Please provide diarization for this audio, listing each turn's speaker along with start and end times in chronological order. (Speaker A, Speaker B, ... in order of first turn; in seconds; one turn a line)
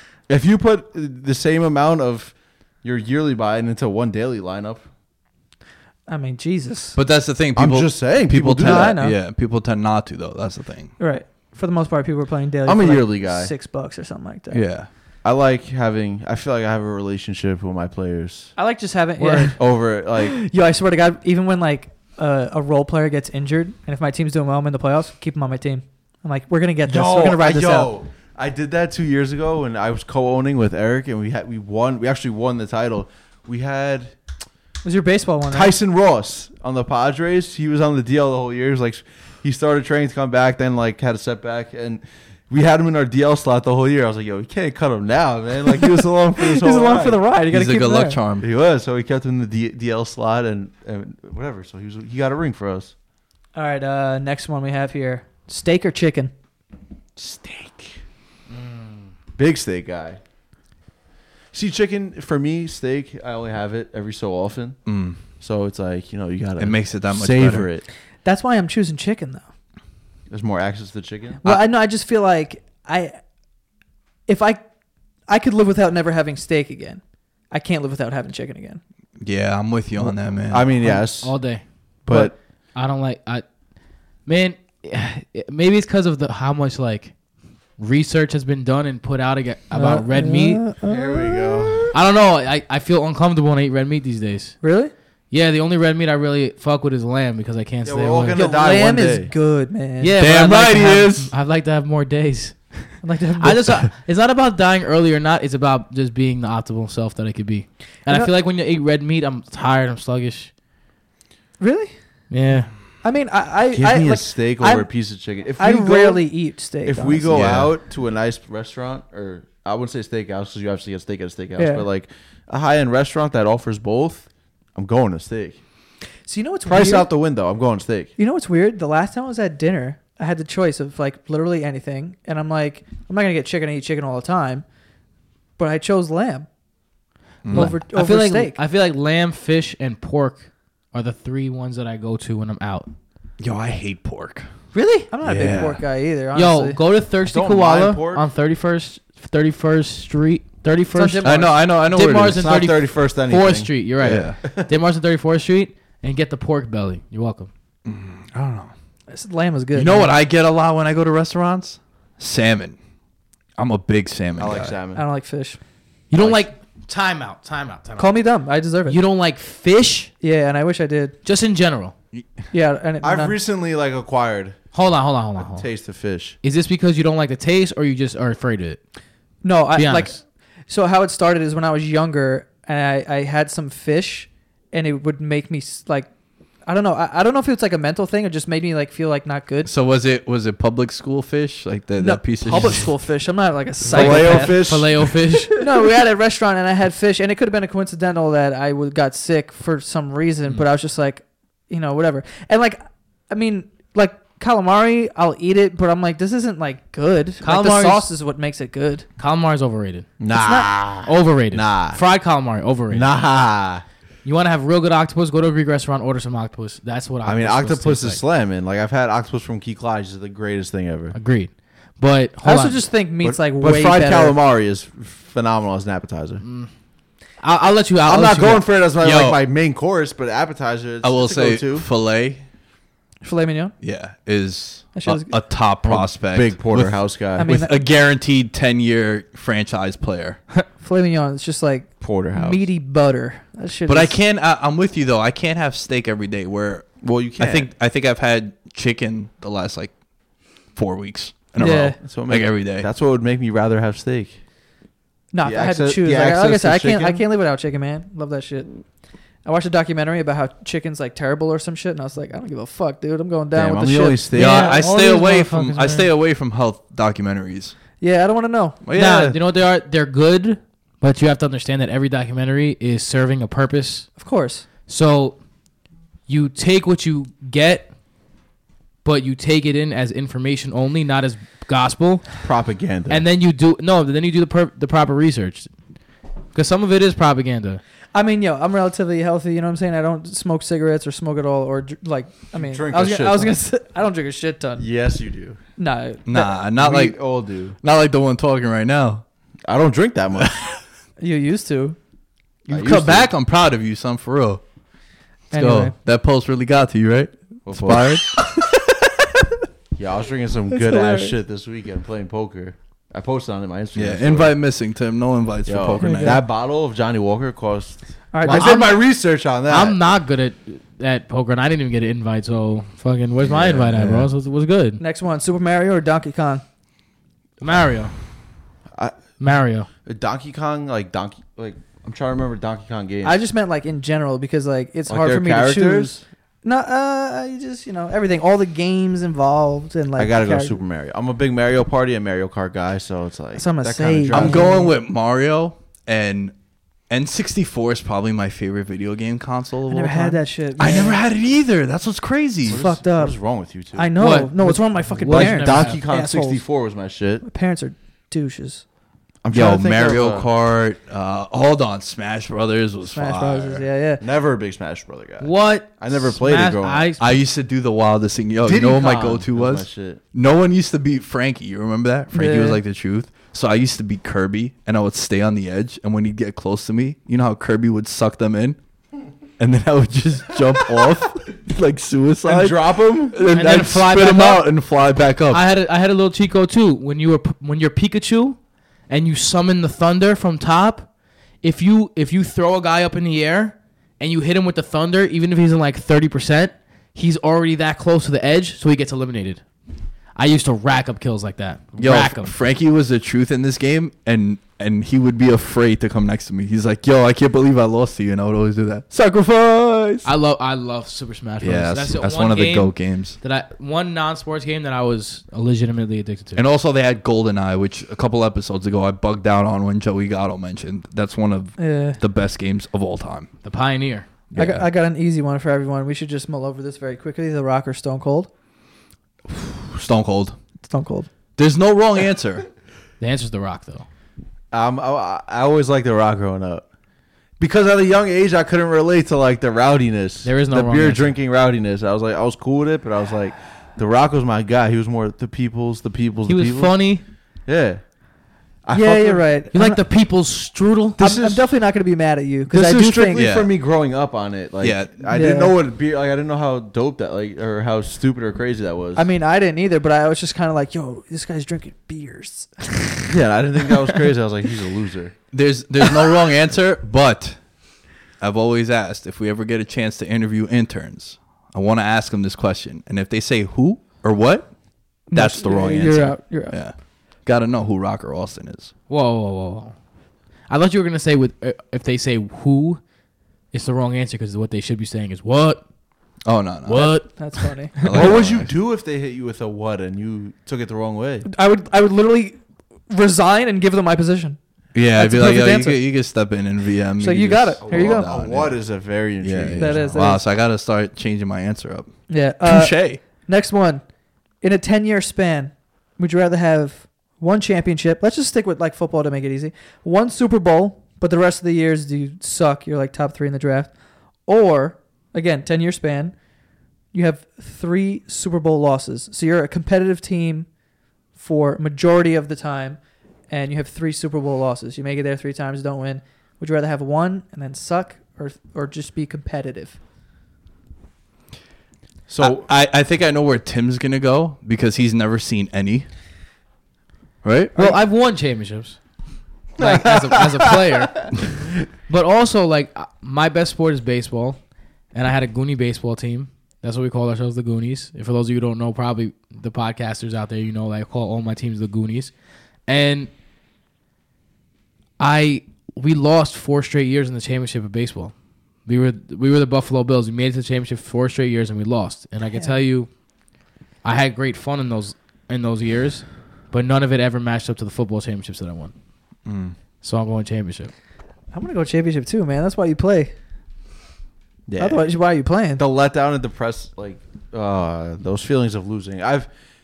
Speaker A: 0.3-4.8
Speaker B: 6.1-7.0
Speaker C: 6.9-10.9
Speaker A: 7.5-9.0
Speaker B: 8.6-9.2
Speaker B: 11.0-14.6
Speaker A: 12.7-13.5
Speaker C: 14.5-14.9
Speaker A: 15.2-18.5
Speaker B: 18.6-19.6
Speaker A: 19.2-20.4
Speaker B: 20.2-27.9
Speaker A: 26.9-34.1
Speaker B: 34.8-35.7
Speaker A: 35.5-47.2
Speaker B: 46.4-48.2
Speaker C: 47.5-48.5
Speaker A: 48.4-52.9
Speaker B: 53.5-56.3
Speaker A: 57.2-58.0
Speaker D: 58.5-59.1
Speaker A: 59.4-60.2
Speaker A: 61.5-67.8
Speaker C: 64.8-65.2
Speaker C: 66.6-67.7
Speaker B: 68.2-69.5
Speaker A: 70.3-71.4
Speaker B: 71.4-73.2
Speaker B: 74.3-74.6
Speaker B: 75.3-78.8
Speaker C: 79.2-80.7
Speaker A: 80.0-81.4
Speaker D: 81.0-81.6
Speaker A: 82.0-82.3
Speaker D: 82.7-83.4
Speaker D: 84.2-87.1
Speaker D: 87.8-90.6
Speaker B: 89.7-91.8
Speaker A: 90.8-91.9
Speaker D: 91.9-94.6
Speaker B: 94.6-94.9
Speaker D: 95.3-98.4
Speaker A: 97.8-99.3
Speaker B: 98.3-100.1
Speaker D: 100.0-110.5
Speaker C: 100.2-101.3
Speaker B: 103.0-103.7
Speaker B: 108.1-108.3
Speaker B: 111.6-111.9
Speaker D: 112.3-112.7
Speaker B: 113.0-114.9
Speaker A: 113.7-116.3
Speaker B: 115.6-117.3
Speaker A: 116.8-125.6
Speaker C: 117.3-117.7
Speaker B: 121.5-121.9
Speaker B: 126.3-127.1
Speaker A: 126.7-128.1
Speaker B: 128.2-134.6
Speaker B: 135.6-136.5
Speaker C: 137.4-137.7
Speaker B: 137.5-138.6
Speaker D: 137.5-142.9
Speaker C: 143.4-144.5
Speaker B: 144.7-146.8
Speaker C: 145.2-145.8
Speaker D: 146.3-157.5
Speaker A: 147.2-148.2
Speaker B: 150.9-151.6
Speaker C: 151.2-152.4
Speaker A: 152.3-154.7
Speaker C: 154.0-154.4
Speaker C: 157.8-158.7
Speaker B: 159.1-160.1
Speaker C: 159.7-162.8
Speaker C: 163.6-164.8
Speaker A: 164.4-165.0
Speaker B: 164.9-165.6
Speaker D: 166.1-168.2
Speaker A: 166.1-166.4
Speaker B: 168.0-169.0
Speaker D: 168.9-170.1
Speaker B: 170.2-171.2
Speaker D: 171.2-171.9
Speaker B: 172.5-173.3
Speaker A: 173.0-174.6
Speaker D: 174.7-175.7
Speaker A: 175.4-176.3
Speaker D: 176.4-178.8
Speaker B: 179.4-186.1
Speaker D: 179.7-180.2
Speaker B: 186.7-189.7
Speaker C: 189.6-192.9
Speaker B: 192.0-194.6
Speaker A: 193.9-195.4
Speaker D: 193.9-195.6
Speaker B: 195.6-209.0
Speaker D: 207.4-208.1
Speaker D: 209.2-210.1
Speaker A: 210.2-212.0
Speaker B: 210.3-210.7
Speaker D: 211.0-213.1
Speaker A: 212.9-213.8
Speaker D: 214.2-218.2
Speaker A: 217.2-221.1
Speaker D: 221.1-222.8
Speaker B: 222.4-224.4
Speaker A: 223.2-226.4
Speaker D: 226.4-226.7
Speaker D: 227.4-228.6
Speaker A: 228.0-231.9
Speaker C: 229.0-229.4
Speaker C: 231.0-232.4
Speaker B: 233.2-233.7
Speaker C: 233.8-240.4
Speaker B: 234.9-235.4
Speaker A: 235.8-237.5
Speaker B: 237.4-237.8
Speaker B: 240.8-244.2
Speaker A: 242.0-242.6
Speaker C: 243.9-249.9
Speaker A: 247.0-247.7
Speaker C: 250.7-252.9
Speaker B: 251.6-252.0
Speaker A: 252.0-254.4
Speaker B: 255.3-258.7
Speaker A: 255.4-257.2
Speaker B: 259.4-266.0
Speaker A: 263.5-264.7
Speaker D: 264.3-266.0
Speaker C: 264.3-267.7
Speaker B: 268.0-268.8
Speaker C: 268.8-269.4
Speaker D: 268.9-274.1
Speaker B: 274.2-274.6
Speaker D: 274.9-275.4
Speaker D: 276.3-277.9
Speaker D: 279.0-282.4
Speaker A: 282.4-283.2
Speaker D: 283.1-285.7
Speaker D: 286.5-287.8
Speaker B: 288.1-294.9
Speaker A: 292.6-293.5
Speaker A: 294.8-295.6
Speaker B: 295.8-296.5
Speaker C: 296.2-297.2
Speaker A: 296.8-297.8
Speaker C: 297.8-299.2
Speaker A: 299.6-300.6
Speaker B: 301.2-301.9
Speaker C: 302.7-304.6
Speaker A: 302.7-303.3
Speaker B: 305.5-305.9
Speaker C: 305.5-308.6
Speaker A: 307.7-308.1
Speaker A: 309.9-314.6
Speaker B: 310.7-311.3
Speaker C: 313.9-316.4
Speaker A: 315.6-320.0
Speaker B: 316.0-316.4
Speaker B: 318.3-318.9
Speaker D: 318.4-319.0
Speaker D: 319.7-325.0
Speaker A: 323.4-323.8
Speaker C: 323.6-324.3
Speaker B: 325.0-326.6
Speaker D: 327.6-328.1
Speaker D: 329.4-329.9
Speaker A: 330.1-333.4
Speaker B: 333.2-340.8
Speaker A: 335.1-336.2
Speaker A: 340.2-344.8
Speaker B: 343.5-344.9
Speaker C: 344.3-346.5
Speaker C: 347.1-352.9
Speaker B: 349.9-351.2
Speaker A: 352.6-354.1
Speaker B: 352.7-353.4
Speaker B: 353.9-356.6
Speaker D: 354.2-356.0
Speaker A: 355.2-357.4
Speaker B: 357.4-358.8
Speaker A: 359.4-360.5
Speaker C: 359.5-363.8
Speaker B: 363.1-364.2
Speaker A: 364.2-367.1
Speaker D: 365.4-367.4
Speaker C: 367.2-378.8
Speaker A: 368.6-370.2
Speaker B: 372.3-372.8
Speaker C: 379.6-385.6
Speaker A: 382.4-383.4
Speaker D: 383.5-384.7
Speaker D: 385.5-391.1
Speaker D: 391.6-399.6
Speaker D: 400.4-402.5
Speaker C: 402.0-410.3
Speaker D: 410.2-416.6
Speaker C: 411.6-413.4
Speaker C: 416.5-423.5
Speaker B: 421.8-422.2
Speaker D: 423.6-424.3
Speaker C: 424.5-424.9
Speaker B: 424.5-428.5
Speaker C: 429.5-430.6
Speaker B: 430.8-431.3
Speaker C: 431.6-432.7
Speaker D: 433.2-434.1
Speaker A: 434.7-436.8
Speaker A: 437.6-447.0
Speaker D: 440.4-441.3
Speaker D: 446.5-447.2
Speaker A: 447.6-448.0
Speaker A: 448.8-449.5
Speaker B: 448.9-450.0
Speaker D: 449.7-451.2
Speaker A: 451.2-451.6
Speaker B: 451.2-453.5
Speaker A: 452.7-459.3
Speaker C: 453.3-453.7
Speaker C: 454.8-455.2
Speaker B: 455.3-455.7
Speaker B: 459.1-463.3
Speaker A: 463.3-465.3
Speaker C: 465.5-467.6
Speaker C: 468.4-474.7
Speaker B: 475.3-476.8
Speaker C: 475.3-478.9
Speaker D: 479.1-479.9
Speaker D: 480.7-483.0
Speaker D: 483.7-485.8
Speaker C: 486.4-487.3
Speaker D: 486.9-488.3
Speaker B: 487.2-487.9
Speaker C: 488.0-488.7
Speaker A: 488.1-491.4
Speaker B: 491.4-492.6
Speaker B: 493.1-494.6
Speaker C: 494.9-498.8
Speaker B: 495.1-496.0
Speaker B: 497.2-498.3
Speaker A: 497.8-500.3
Speaker C: 499.4-502.1
Speaker B: 499.8-500.4
Speaker B: 502.3-504.0
Speaker C: 502.6-503.2
Speaker B: 504.6-513.9
Speaker B: 514.5-516.3
Speaker B: 517.1-520.7
Speaker B: 521.4-523.0
Speaker B: 523.5-530.0
Speaker A: 532.3-532.7
Speaker C: 532.4-536.1
Speaker C: 537.4-537.8
Speaker D: 537.8-539.0
Speaker D: 539.8-541.3
Speaker A: 539.8-540.6
Speaker D: 542.1-544.6
Speaker D: 545.1-552.3
Speaker D: 552.9-553.3
Speaker D: 555.2-558.3
Speaker D: 558.9-563.1
Speaker D: 564.0-568.9
Speaker C: 569.5-569.8
Speaker D: 570.0-570.9
Speaker B: 571.5-573.3
Speaker A: 574.7-575.0
Speaker B: 574.8-575.8
Speaker A: 575.8-579.5